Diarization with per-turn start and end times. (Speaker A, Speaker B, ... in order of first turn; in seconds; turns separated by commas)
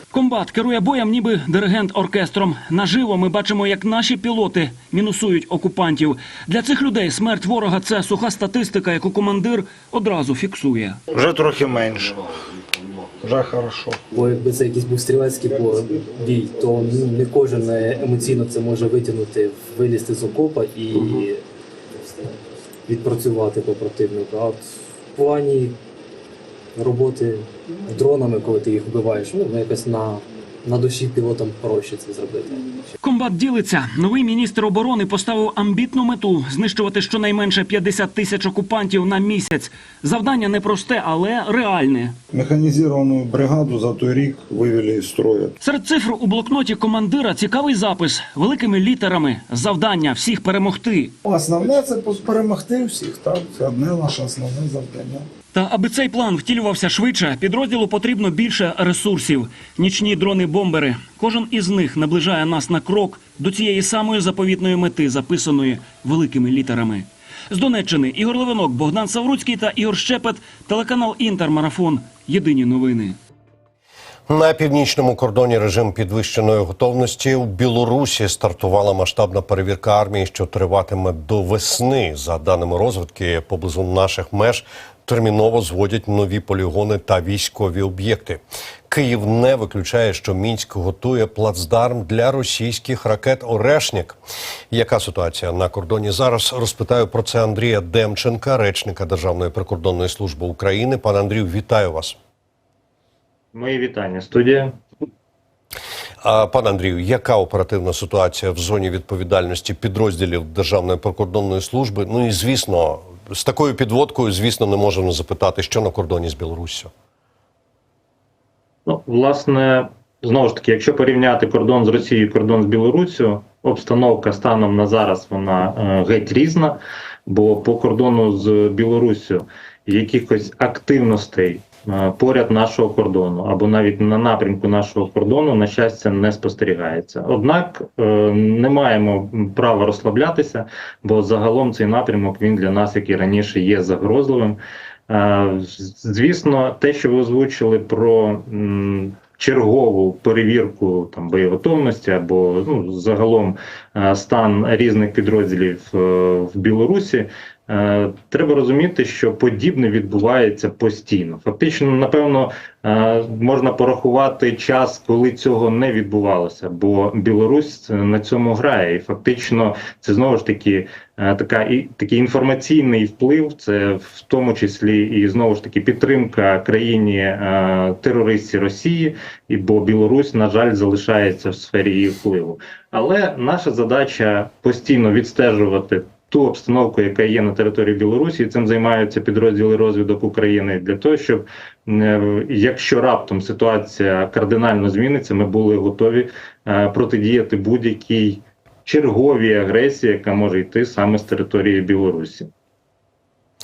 Speaker A: 0.1-11.0, Speaker B: 11.1-12.2, Speaker B: 13.2-14.0, Speaker C: 14.1-21.4, Speaker B: 15.4-17.0, Speaker C: 22.9-24.6, Speaker C: 25.1-25.8, Speaker C: 26.8-32.6, Speaker A: 33.0-42.1, Speaker B: 42.3-45.5, Speaker A: 45.6-51.1, Speaker B: 51.2-55.2, Speaker A: 55.5-73.1, Speaker D: 74.3-94.2, Speaker D: 94.7-102.2, Speaker E: 103.5-104.8, Speaker D: 106.2-116.9, Speaker E: 118.8-202.5